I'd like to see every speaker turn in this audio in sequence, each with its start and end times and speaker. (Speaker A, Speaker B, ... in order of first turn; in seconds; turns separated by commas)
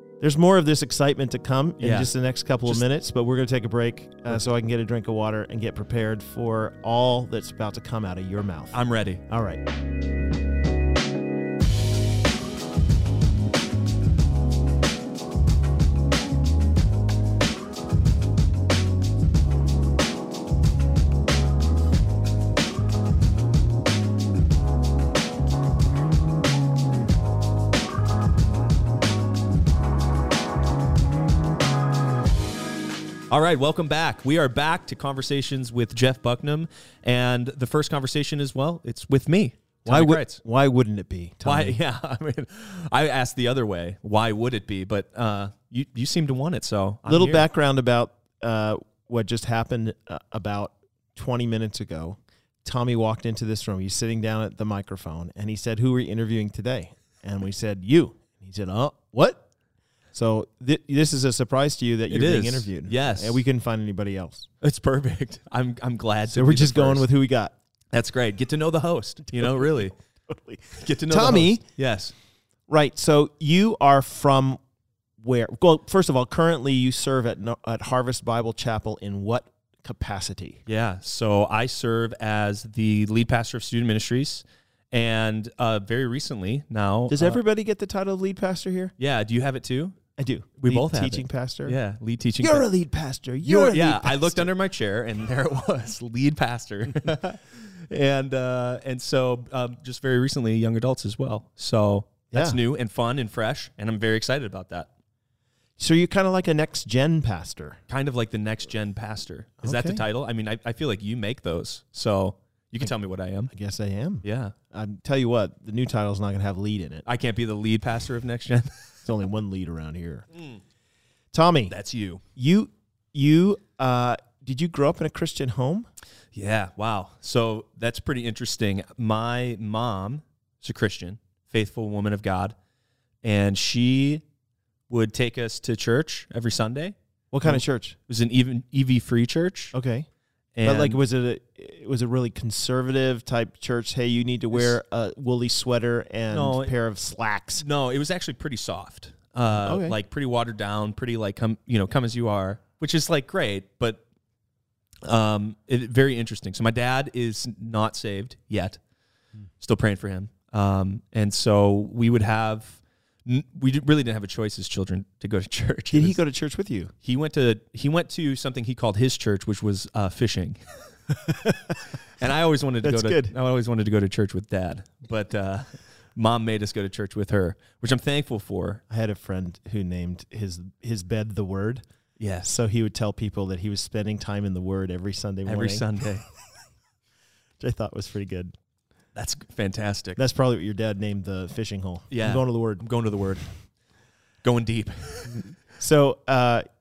Speaker A: 0.2-8.8, Speaker B: 1.8-2.1, Speaker B: 8.7-9.2, Speaker A: 9.3-9.6, Speaker B: 33.3-40.4, Speaker A: 39.9-41.8, Speaker B: 41.4-47.5, Speaker A: 47.1-59.4, Speaker A: 60.1-64.5, Speaker B: 62.1-63.4, Speaker B: 64.6-67.1, Speaker A: 66.3-67.5, Speaker B: 67.9-69.9, Speaker A: 69.3-71.6, Speaker B: 70.8-72.1, Speaker A: 72.7-74.6, Speaker A: 75.2-80.6, Speaker B: 80.7-87.4, Speaker A: 87.1-88.9, Speaker B: 89.0-90.0, Speaker A: 90.2-91.8, Speaker B: 90.6-92.7, Speaker A: 92.4-94.5, Speaker B: 93.4-104.9, Speaker A: 102.3-102.6, Speaker A: 105.8-107.8, Speaker B: 107.9-113.5, Speaker A: 109.6-110.0, Speaker A: 113.5-117.0, Speaker B: 114.2-114.5, Speaker B: 117.0-118.8, Speaker A: 119.0-120.3, Speaker B: 120.3-120.6, Speaker A: 121.3-121.7, Speaker B: 121.7-122.2, Speaker A: 122.4-125.9, Speaker B: 126.3-132.6, Speaker B: 133.2-134.2, Speaker B: 134.9-139.7, Speaker A: 137.3-138.0, Speaker A: 139.7-140.1, Speaker B: 140.6-141.0, Speaker A: 140.6-147.6, Speaker B: 146.3-146.7, Speaker B: 147.6-154.0, Speaker A: 149.6-150.0, Speaker B: 155.0-158.8, Speaker B: 159.6-166.2, Speaker A: 165.9-166.9, Speaker B: 167.0-170.6, Speaker A: 171.1-171.8, Speaker B: 172.2-178.8, Speaker A: 172.8-173.3, Speaker A: 178.9-181.8, Speaker B: 182.2-182.5, Speaker A: 182.4-186.3, Speaker B: 185.5-186.3, Speaker A: 187.6-188.5, Speaker B: 189.2-190.2, Speaker A: 190.2-192.8, Speaker B: 192.1-193.5, Speaker B: 194.4-195.5, Speaker A: 195.7-196.7